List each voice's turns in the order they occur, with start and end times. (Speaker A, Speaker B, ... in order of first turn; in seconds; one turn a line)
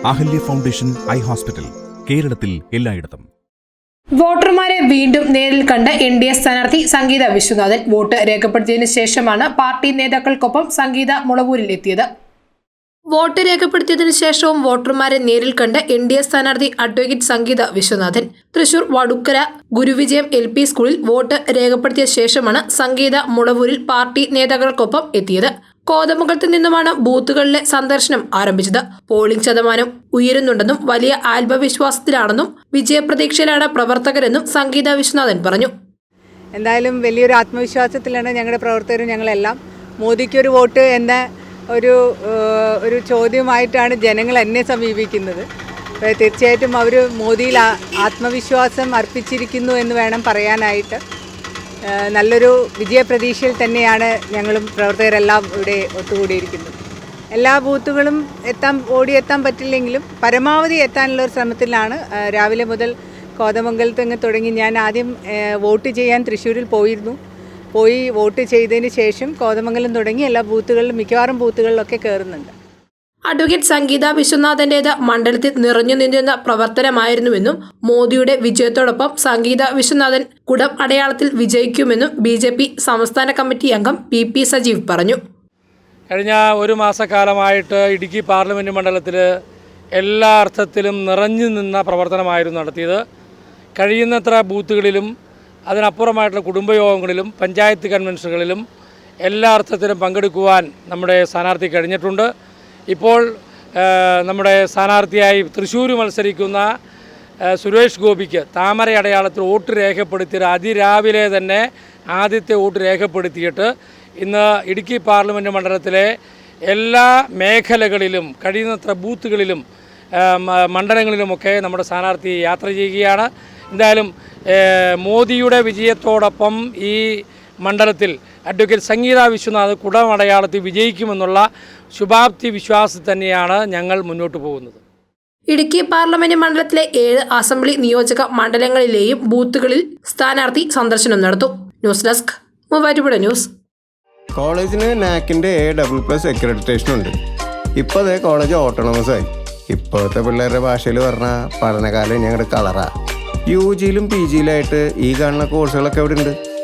Speaker A: 0.1-3.2
Speaker B: 4.2-12.1
Speaker B: 13.1-35.7
Speaker C: 36.5-45.4
Speaker C: 46.0-51.0
Speaker C: 51.9-56.7
Speaker C: 57.3-67.2
Speaker C: 67.7-72.5
Speaker B: 73.3-85.2
Speaker D: 86.1-89.2
Speaker D: 90.0-93.0
Speaker D: 93.8-95.1
Speaker D: 95.7-98.6
Speaker D: 99.2-102.3
Speaker D: 102.9-103.2
Speaker D: 103.8-106.7
Speaker D: 107.5-113.7
Speaker D: 114.2-116.1
Speaker D: 116.7-119.6
Speaker D: 120.2-127.0
Speaker D: 127.6-134.8
Speaker B: 135.5-143.5
Speaker E: 144.4-147.1
Speaker E: 147.8-152.9
Speaker E: 153.5-156.3